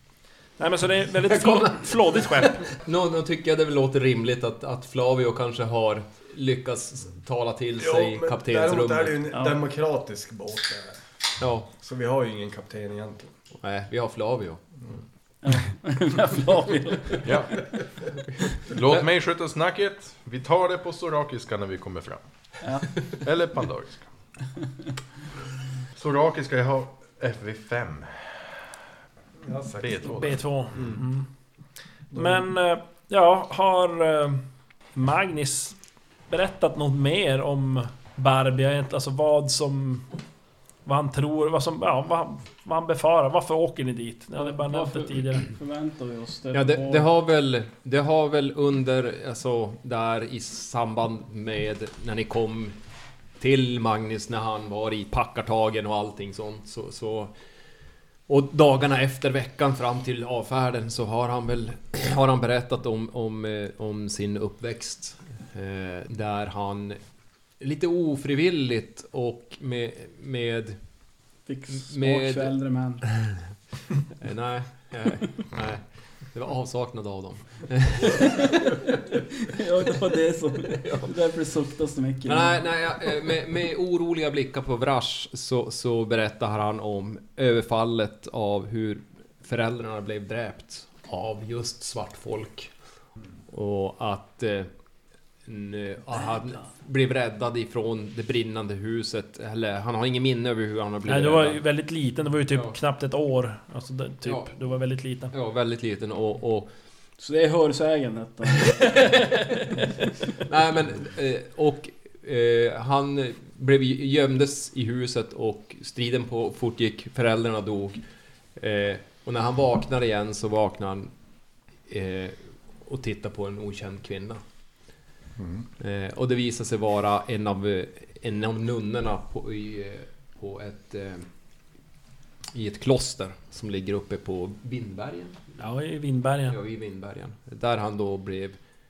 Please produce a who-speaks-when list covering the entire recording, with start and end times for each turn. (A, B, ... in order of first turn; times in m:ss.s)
0:00.6-0:02.7 A
0:01.3-0:09.2 B
0:07.8-0:11.0 C
0:09.3-0:09.6 D
0:11.4-0:11.7 B
0:11.8-0:13.3 C
0:13.6-0:14.6 B
0:15.4-0:17.3 D
0:17.2-0:17.6 E
0:18.6-0:22.2 E
0:22.6-0:23.0 D
0:23.2-0:24.0 E
0:26.0-0:28.5 E
0:29.4-0:30.1 C
0:29.8-0:30.9 E
0:30.0-0:31.3 A
0:32.1-0:34.4 A
0:32.1-0:32.4 C
0:34.9-0:35.8 A
0:36.3-0:40.1 A
0:40.8-0:45.4 A
0:44.4-0:47.1 D
0:46.5-0:52.7 B
0:53.4-0:57.3 B
0:58.3-1:07.0 B
1:07.6-1:10.8 B
1:11.5-1:13.0 D
1:11.7-1:12.5 B
1:14.2-1:18.8 B
1:18.1-1:18.5 D
1:19.5-1:22.6 D
1:20.7-1:21.1 B
1:22.2-1:32.7 B
1:33.5-1:34.7 B
1:35.4-1:41.6 B
1:41.1-1:45.3 A
1:44.2-1:44.5 B
1:45.3-1:46.7 B
1:47.2-1:49.3 D
1:48.6-1:49.7 B
1:50.4-1:58.0 B
1:58.6-2:01.1 B
2:01.9-2:04.4 B
2:05.4-2:05.6 C
2:05.8-2:11.2 B
2:12.5-2:15.5 B
2:15.6-2:16.6 A
2:16.5-2:18.6 B